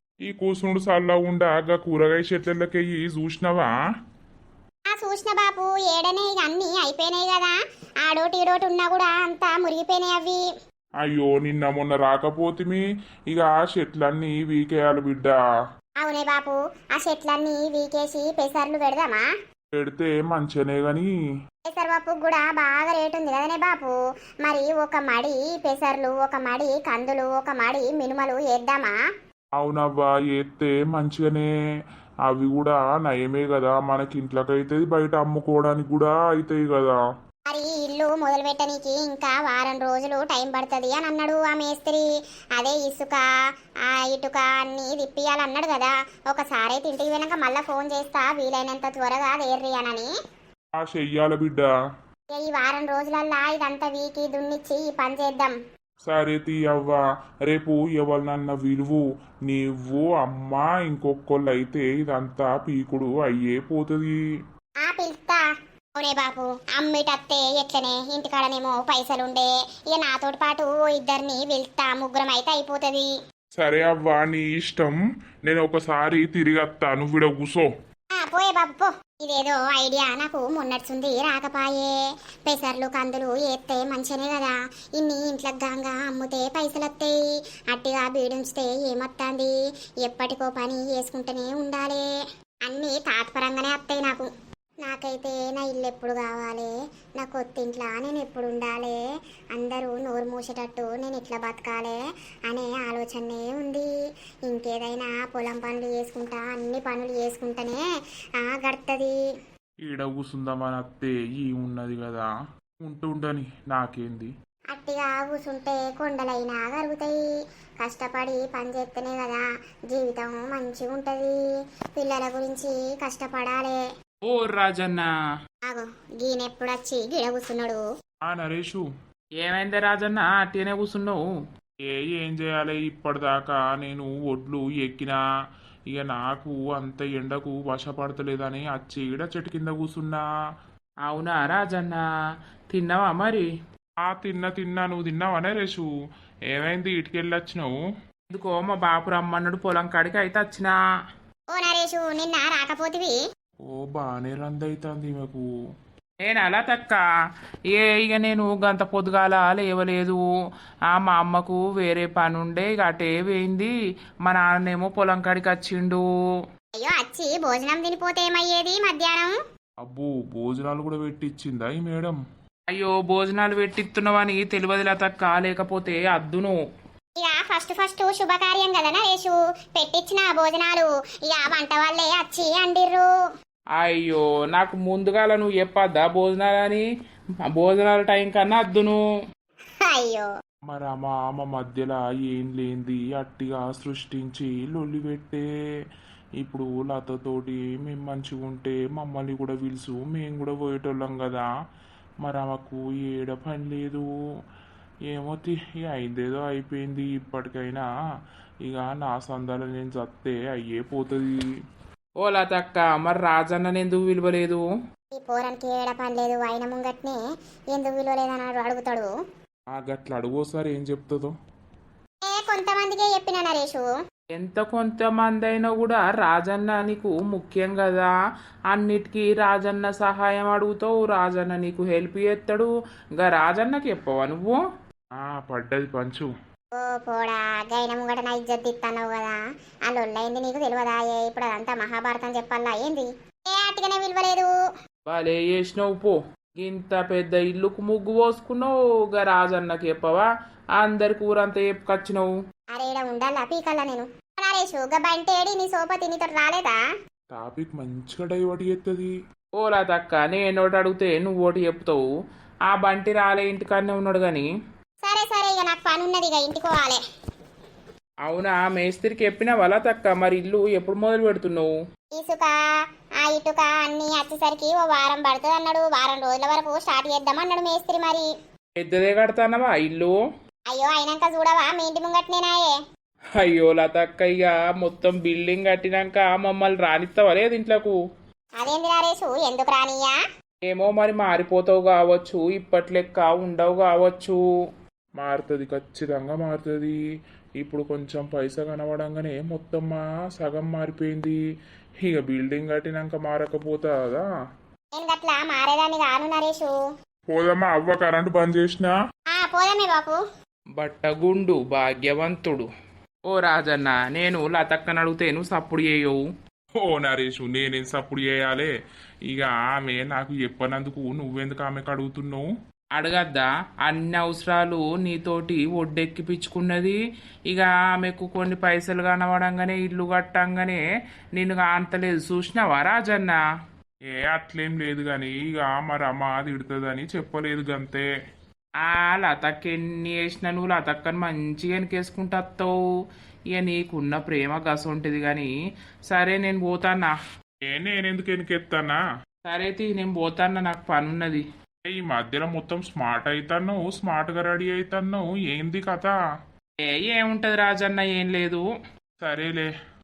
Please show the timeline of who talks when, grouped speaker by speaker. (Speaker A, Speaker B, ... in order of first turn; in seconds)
Speaker A: 0.3-3.7, 11.0-15.4, 19.8-21.1, 29.6-31.5, 32.3-37.0, 50.8-51.7, 56.1-64.2, 73.6-77.7, 109.8-112.3, 112.8-114.3, 128.3-128.8, 131.8-135.2, 135.9-140.2, 144.0-145.9, 146.5-147.7, 153.7-155.4, 169.8-172.2, 190.7-195.5, 196.4-201.5, 202.2-204.1, 205.1-207.9, 208.7-211.3, 219.7-221.3, 235.2-236.3, 257.3-259.1, 295.2-297.0, 297.6-301.4, 302.0-304.3, 307.3-308.9, 316.8-318.7, 319.3-322.4, 334.1-338.1, 347.7-349.0, 351.9-356.2, 359.2-359.7
Speaker B: 4.9-10.4, 16.0-19.2, 21.7-29.0, 37.5-42.0, 42.6-43.2, 43.9-50.1, 52.3-55.5, 64.9-65.4, 66.0-73.1, 78.2-87.2, 87.7-92.0, 92.7-94.3, 94.8-99.0, 99.5-102.0, 102.5-103.9, 104.5-107.8, 108.4-109.1, 114.7-117.2, 117.8-121.4, 122.0-123.8, 125.7-127.8, 151.5-153.2, 166.8-169.4, 177.2-183.1, 189.9-190.3, 215.2-217.2, 217.7-219.1, 222.3-223.9, 236.8-244.5, 252.8-256.8, 265.0-267.0, 272.2-272.6, 273.2-278.3, 280.7-282.8, 288.6-290.2, 305.0-306.8, 309.3-310.2
Speaker C: 124.3-125.1, 129.4-131.2, 141.1-142.0, 142.7-143.5, 148.3-150.7, 156.2-157.0, 157.7-160.2, 160.9-163.7, 164.2-166.0, 172.7-176.6, 183.8-186.8, 187.5-189.0, 212.2-214.6, 224.3-228.1, 228.7-234.6, 245.1-250.3, 250.8-252.3, 259.6-262.0, 262.7-264.5, 268.3-271.7, 278.8-280.1, 283.4-288.0, 290.7-294.4, 310.8-312.6, 313.3-316.2, 323.0-327.0, 327.5-330.8, 331.4-333.4, 338.8-342.7, 343.5-345.5, 346.1-347.1, 349.5-351.4, 356.8-358.6